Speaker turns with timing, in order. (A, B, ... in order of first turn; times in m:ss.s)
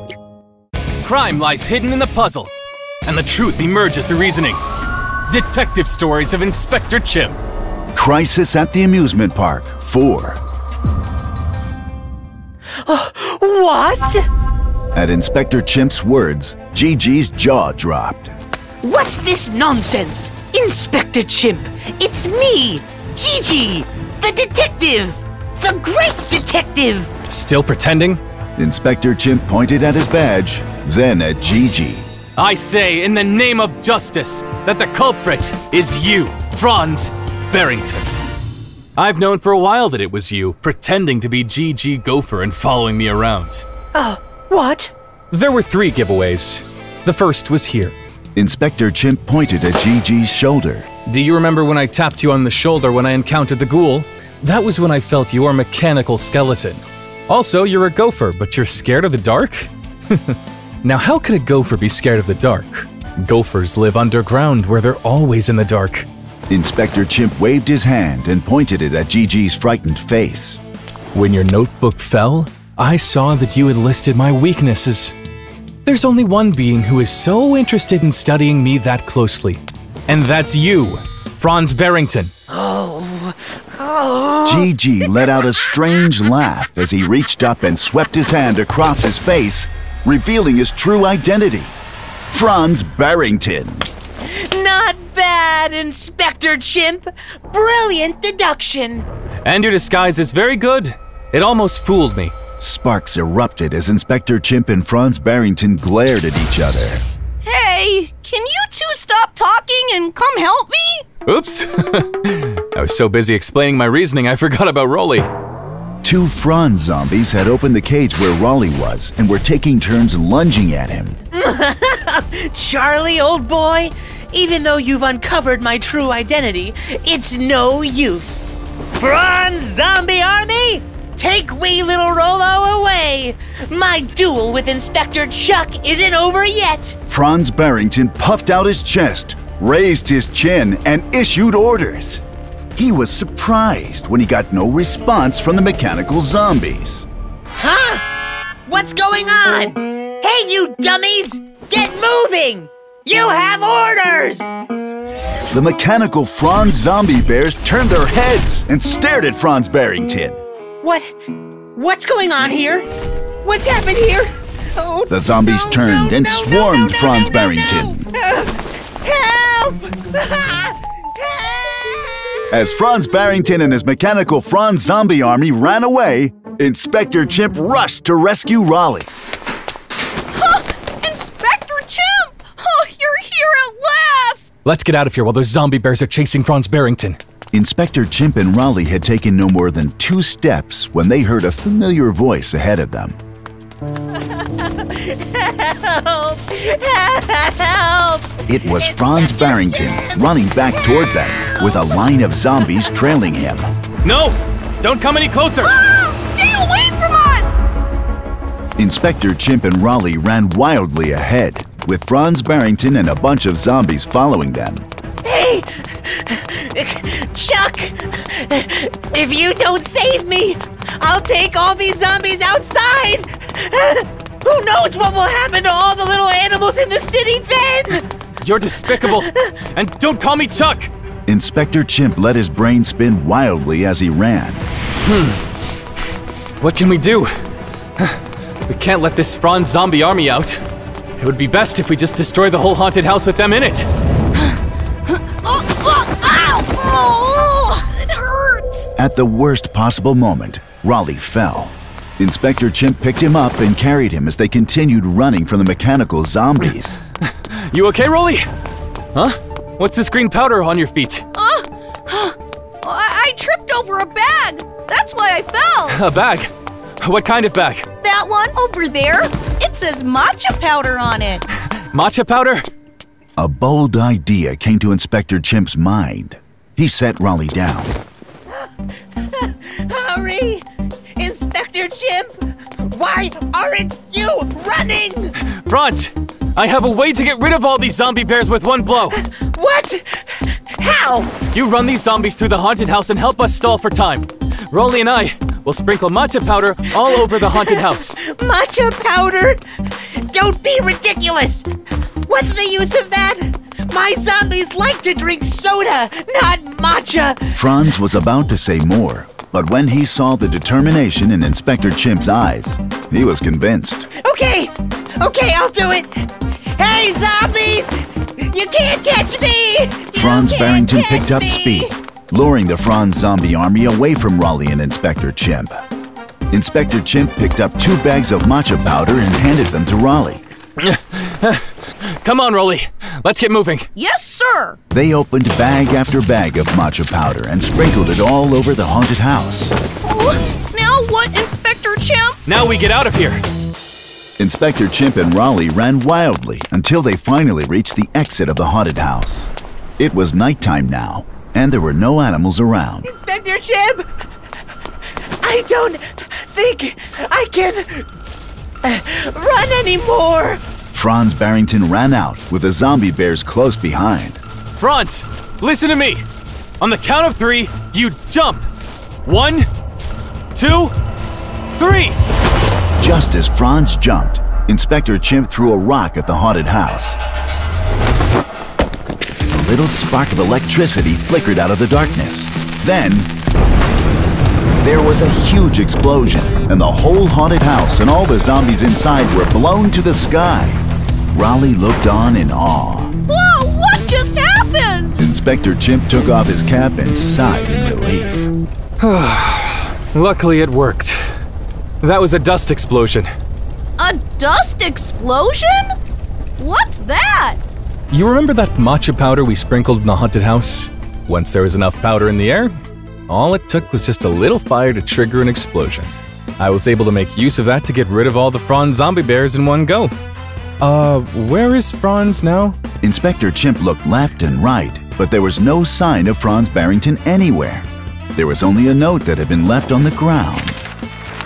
0:01.0-0:02.5 A
0:03.0-0:04.6 A
0:05.3-0:07.4 A
0:08.0-0:10.4 B
0:12.9-0:14.2 C
0:14.9-0:18.4 B
0:18.8-0:27.1 C
0:27.3-0:28.2 A
0:28.6-0:32.1 B
0:32.4-0:38.1 A
0:39.0-0:43.6 A
0:43.9-0:44.9 C
0:45.3-0:48.0 A
0:48.4-0:50.9 B
0:51.1-1:06.1 A
1:06.5-1:10.6 B
1:11.1-1:15.2 A
1:15.8-1:22.3 A
1:22.5-1:25.4 C
1:24.4-1:31.7 B
1:32.3-1:33.9 B
1:34.2-1:39.1 C
1:39.4-1:42.4 A
1:42.6-1:47.0 B
1:47.4-1:51.1 D
1:51.2-1:55.3 A
1:56.0-2:01.2 B
2:01.3-2:17.0 C
2:17.1-2:22.2 B
2:22.8-2:27.1 B
2:27.6-2:28.0 C
2:28.7-2:34.6 C
2:35.5-2:40.4 B
2:40.8-2:41.1 C
2:41.8-2:42.9 C
2:43.4-2:52.2 C
2:45.1-2:48.1 B
2:52.5-2:59.1 B
3:00.3-3:04.5 D
3:04.6-3:07.2 A
3:07.5-3:13.2 B
3:14.1-3:22.0 C
3:18.5-3:23.7 B
3:24.0-3:25.8 A
3:25.6-3:27.7 D
3:28.8-3:34.9 B
3:35.2-3:48.0 C
3:48.4-3:50.9 A
3:49.1-3:49.5 C
3:51.3-3:54.6 B
3:55.0-3:55.5 A
3:56.6-3:57.3 A
3:58.0-4:00.6 A
4:01.2-4:03.9 A
4:05.2-4:08.9 D
4:09.0-4:17.0 B
4:17.5-4:18.5 A
4:19.1-4:21.3 A
4:21.4-4:26.0 D
4:25.9-4:27.9 A
4:28.0-4:31.4 D
4:31.9-4:32.7 A
4:33.4-4:37.9 B
4:39.2-4:40.6 C
4:41.2-4:45.3 C
4:45.5-4:49.2 A
4:49.1-4:51.4 C
4:51.5-4:58.2 A
4:57.0-5:01.7 C
5:02.2-5:07.6 C
5:07.5-5:14.1 B
5:14.2-5:22.0 C
5:20.1-5:25.8 B
5:26.5-5:30.4 B
5:30.8-5:33.9 A
5:34.0-5:34.8 D
5:34.9-5:39.8 B
5:40.0-5:42.4 D
5:42.5-5:43.4 A
5:44.4-5:53.1 B
5:53.0-5:54.1 C
5:55.4-5:58.1 C
5:58.8-6:00.6 C
6:00.9-6:04.4 B
6:04.8-6:06.2 A
6:06.8-6:08.7 A
6:09.2-6:09.7 A
6:10.5-6:10.9 A
6:11.8-6:12.2 A
6:13.0-6:17.2 B
6:19.4-6:23.3 B
6:24.8-6:33.2 B
6:33.3-6:35.2 D
6:35.2-6:38.5 B
6:39.0-6:41.3 A
6:42.0-6:43.3 A
6:44.0-6:45.9 D
6:46.6-6:47.6 D
6:48.1-6:52.8 A
6:53.3-7:00.1 A
7:00.8-7:02.8 A
7:03.0-7:10.8 B